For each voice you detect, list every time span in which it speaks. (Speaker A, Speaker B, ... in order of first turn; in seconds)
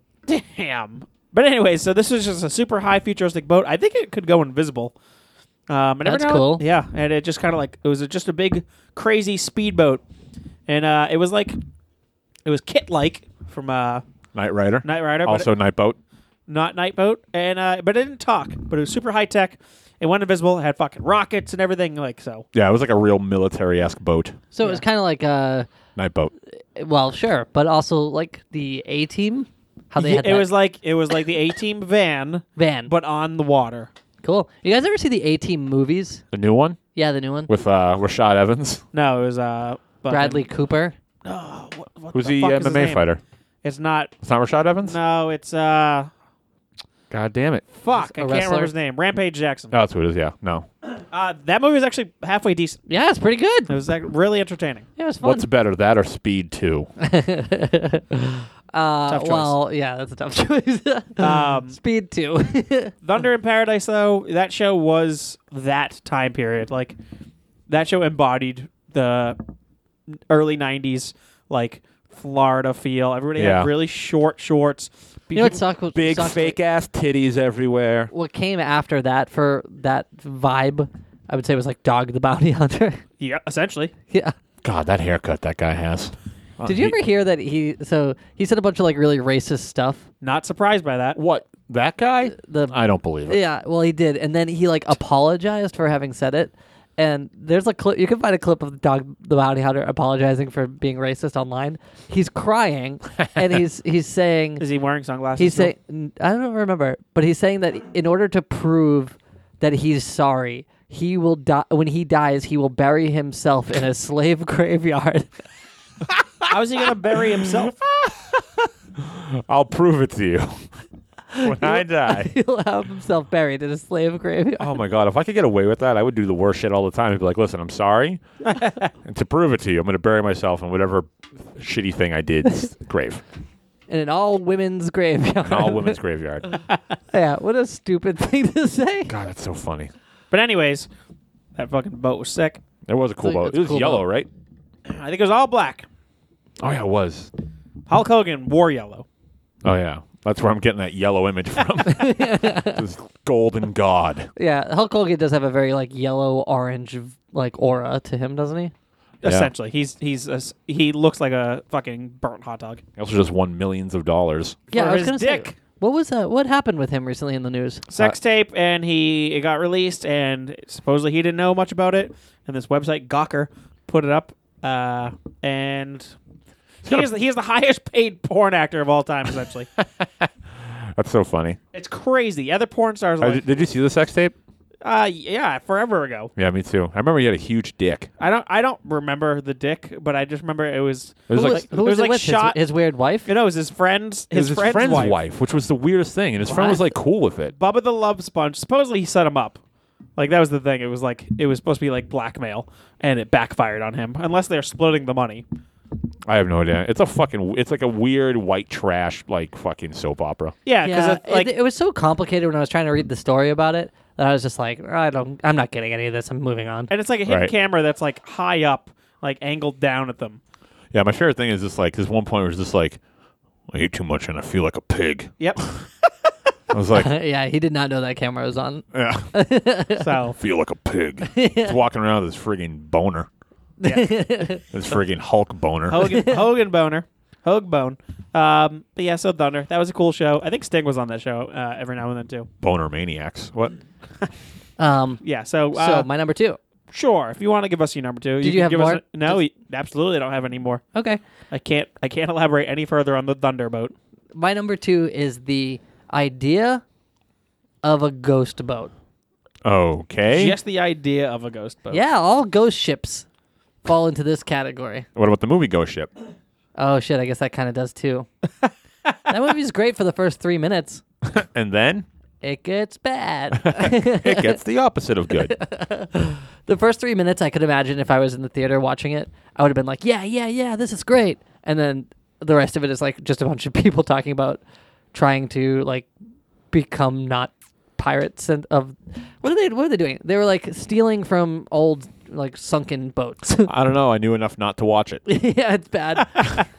Speaker A: 0.3-4.9, 5.7-10.0, 10.7-11.6, 12.4-14.0, 14.8-15.5, 16.5-22.5, 30.0-33.9, 38.9-40.4, 41.2-43.0, 43.6-44.2, 44.8-46.1, 47.8-49.7, 51.0-52.8, 53.7-54.9, 59.1-59.5, 61.2-61.8, 63.0-67.0, 67.7-69.4, 70.3-75.6, 83.2-83.9, 90.2-91.2, 104.6-105.7, 116.5-117.8, 140.3-140.9, 141.6-142.6, 144.9-145.8, 147.9-149.1, 159.2-162.8, 164.7-165.5, 167.9-176.1, 176.8-179.7, 181.7-183.4, 184.8-186.3, 188.2-192.6, 193.2-195.2, 197.6-199.6, 200.2-205.4, 210.7-211.5, 216.9-220.4, 225.4-225.8, 230.0-230.4, 233.8-234.1, 235.9-242.5, 245.2-246.1, 246.9-250.8, 251.5-253.9, 260.3-262.0, 296.2-296.6
Speaker B: 6.0-6.6, 24.5-25.7, 26.7-30.5, 32.6-32.9, 34.2-36.2, 36.9-37.5, 40.1-41.0, 47.9-48.7, 52.9-53.7, 55.0-55.5, 57.0-62.9, 75.3-76.6, 78.1-83.0, 86.6-90.0, 92.3-92.7, 93.3-104.6, 105.4-115.3, 121.3-124.7, 133.9-136.0, 137.1-139.1, 143.2-144.1, 151.9-152.8, 154.3-158.7, 164.7-167.8, 191.3-193.3, 196.5-196.8, 210.8-216.9, 226.9-230.1, 231.2-231.8, 233.8-234.6, 236.0-236.4, 244.8-245.2, 245.7-246.6, 248.4-249.4, 250.9-251.2, 254.3-256.8, 257.8-258.9, 261.9-263.2, 263.8-265.1, 266.8-268.3, 269.3-271.0, 272.4-274.6, 275.5-284.6, 285.1-286.1, 286.7-293.7, 295.2-296.6
Speaker C: 14.3-16.0, 22.5-24.4, 25.9-26.3, 36.3-36.8, 37.5-38.8, 42.1-43.2, 44.2-45.0, 47.1-47.6, 49.7-50.7, 55.2-56.9, 73.3-73.7, 75.9-78.1, 84.6-87.0, 91.1-93.4, 117.9-120.7, 121.4-122.3, 124.6-128.2, 129.0-133.2, 135.4-136.5, 139.1-139.9, 142.9-144.3, 146.6-147.3, 149.6-154.3, 159.2-159.5, 163.0-164.6, 179.8-181.6, 183.2-184.3, 186.3-188.1, 191.3-191.6, 194.3-197.5, 206.2-210.5, 217.3-217.5, 220.9-223.0, 223.7-225.8, 226.7-227.1, 228.9-229.3, 230.3-233.3, 234.7-236.1, 242.6-243.7, 259.6-260.6, 265.1-266.1, 271.2-272.1, 273.6-275.5, 293.6-295.2